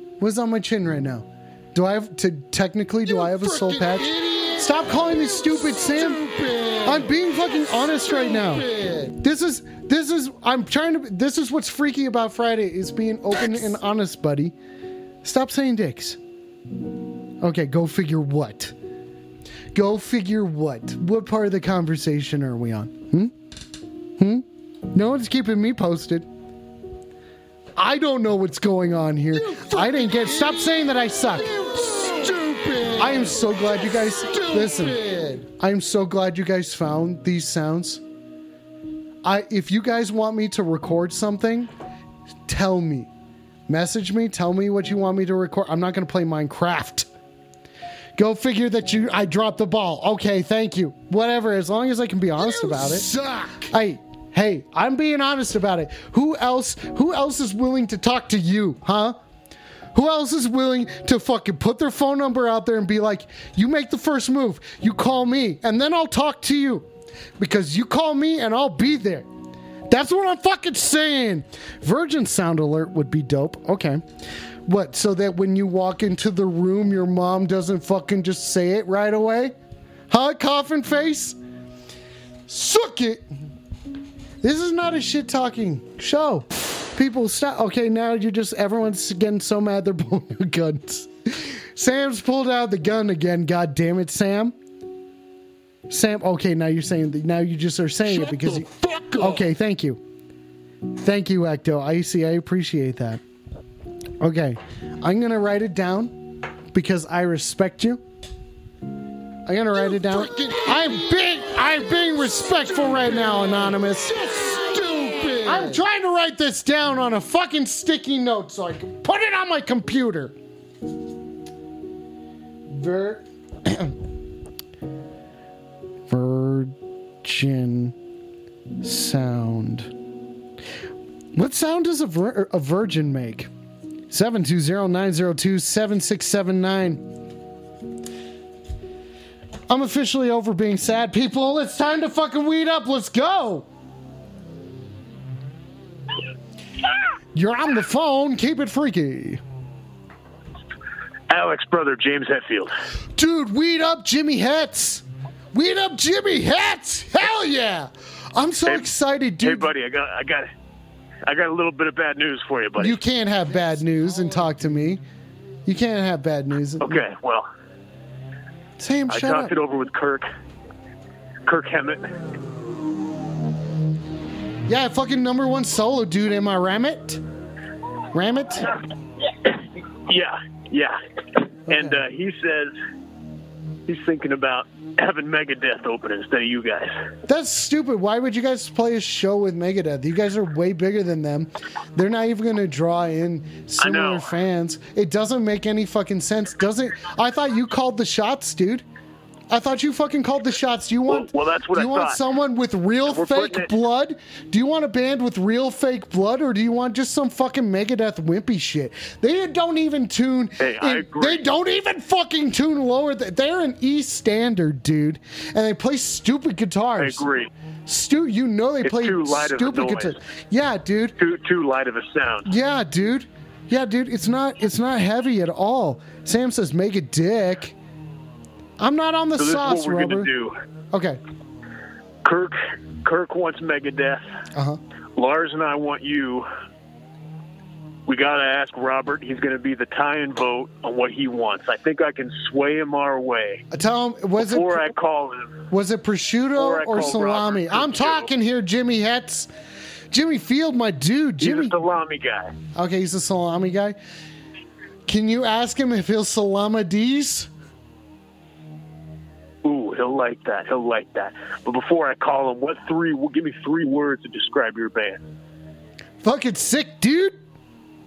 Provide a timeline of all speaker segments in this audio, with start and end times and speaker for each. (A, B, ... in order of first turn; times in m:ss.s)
0:00.2-0:06.2 A
0:03.2-0:04.8 B
0:05.4-0:07.1 B
0:06.8-0:14.5 A
0:08.3-0:09.1 B
0:15.2-0:16.2 A
0:17.4-0:18.7 A
0:19.7-0:23.3 A
0:24.2-0:26.3 A
0:27.8-0:31.5 A
0:29.5-0:30.6 B
0:31.4-0:33.2 B
0:33.0-0:38.0 A
0:34.3-0:35.4 B
0:39.2-0:41.7 A
0:42.5-0:43.1 A
0:43.7-0:47.1 A
0:48.2-0:59.2 A
0:52.5-0:53.6 B
0:59.9-1:06.9 A
1:07.4-1:09.2 A
1:09.9-1:14.0 A
1:14.6-1:19.5 A
1:20.1-1:21.4 A
1:22.5-1:23.2 A
1:24.4-1:34.5 A
1:35.9-1:40.0 A
1:38.2-1:39.4 B
1:41.0-1:43.2 A
1:44.2-1:46.1 A
1:46.7-1:48.0 A
1:49.5-1:54.2 A
1:49.9-1:50.9 B
1:54.1-1:55.8 B
1:55.4-2:00.3 A
2:02.7-2:03.9 A
2:06.1-2:07.9 A
2:08.8-2:09.9 A
2:11.3-2:13.5 A
2:14.1-2:17.0 A
2:19.7-2:23.6 A
2:27.3-2:29.4 A
2:31.3-2:32.7 C
2:33.1-2:39.7 A
2:39.5-2:40.4 C
2:41.3-2:42.9 C
2:42.8-2:45.0 A
2:45.6-2:47.0 A
2:47.1-2:47.4 C
2:48.8-2:49.5 A
2:49.4-2:50.2 C
2:51.5-2:52.0 C
2:54.7-2:57.2 A
2:58.1-2:58.8 A
3:00.1-3:00.9 C
3:01.7-3:02.7 C
3:03.9-3:06.9 C
3:07.3-3:18.8 A
3:13.8-3:14.2 C
3:19.5-3:37.3 A
3:21.1-3:22.1 C
3:30.7-3:31.4 C
3:37.1-3:37.4 C
3:37.9-3:41.2 A
3:41.3-3:42.4 C
3:42.4-3:47.7 A
3:48.8-3:50.3 A
3:49.4-3:50.5 C
3:50.9-3:51.2 A
3:52.2-3:52.5 C
3:53.0-3:54.2 C
3:54.5-3:54.8 A
3:55.2-3:56.4 C
3:58.1-4:03.6 C
4:03.7-4:04.9 A
4:04.4-4:05.4 C
4:05.7-4:09.5 A
4:06.6-4:08.2 C
4:10.1-4:11.8 A
4:11.5-4:12.4 C
4:12.7-4:14.0 A
4:15.1-4:17.5 A
4:19.6-4:25.2 C
4:26.2-4:27.4 A